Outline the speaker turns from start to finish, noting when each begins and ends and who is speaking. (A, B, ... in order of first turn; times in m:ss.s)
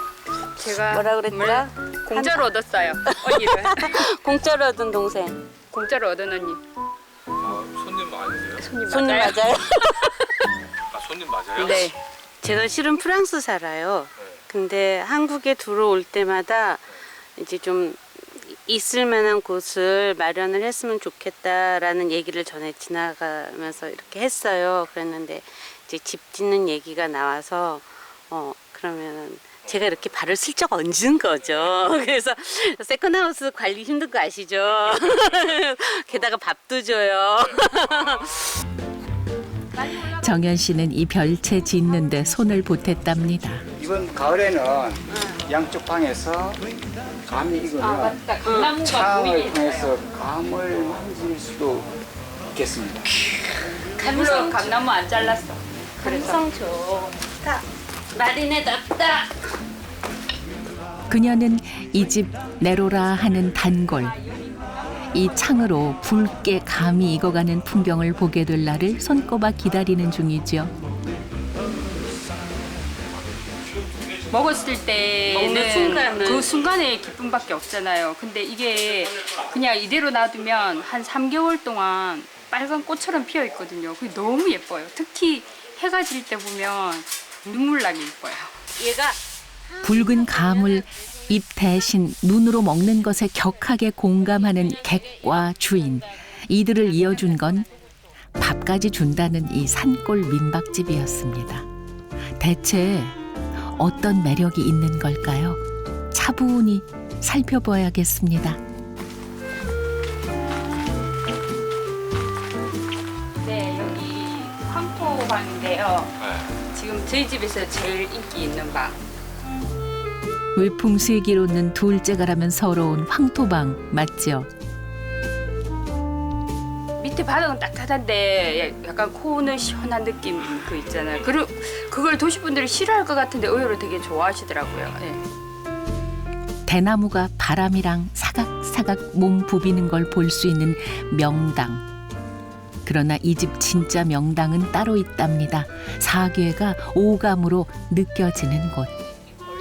0:00.6-0:04.0 A
0:00.9-0:02.5 B
0:03.1-0:05.4 B
0:05.7-0:06.6 A
0:07.4-0:08.7 C
0:08.7-0:09.4 A
0:08.7-0:10.3 B
0:10.9-0:11.8 C
0:11.6-0:38.5 B
0:11.6-0:12.0 A
0:40.1-0:43.6 D
0:43.8-0:46.6 E
0:45.1-0:45.4 B
0:47.3-0:48.2 E
0:47.8-0:49.9 A
0:48.4-0:48.8 B
0:48.8-0:51.9 E
0:52.5-0:53.1 E
0:53.3-0:54.8 B
0:54.0-0:56.4 A
0:56.0-0:59.3 B
1:01.1-1:04.2 D
1:04.1-1:05.0 A
1:05.1-1:10.7 D
1:14.3-1:28.5 A
1:15.3-1:16.6 B
1:28.8-1:29.2 B
1:29.7-1:30.5 B
1:29.8-1:37.7 D
1:38.4-1:41.6 D
1:42.4-1:45.6 D
1:46.1-1:48.6 D
1:53.4-1:56.2 A
1:56.7-1:59.0 A
2:00.6-2:04.5 D
2:07.0-2:15.2 A
2:16.7-2:21.8 D
2:22.8-2:28.9 D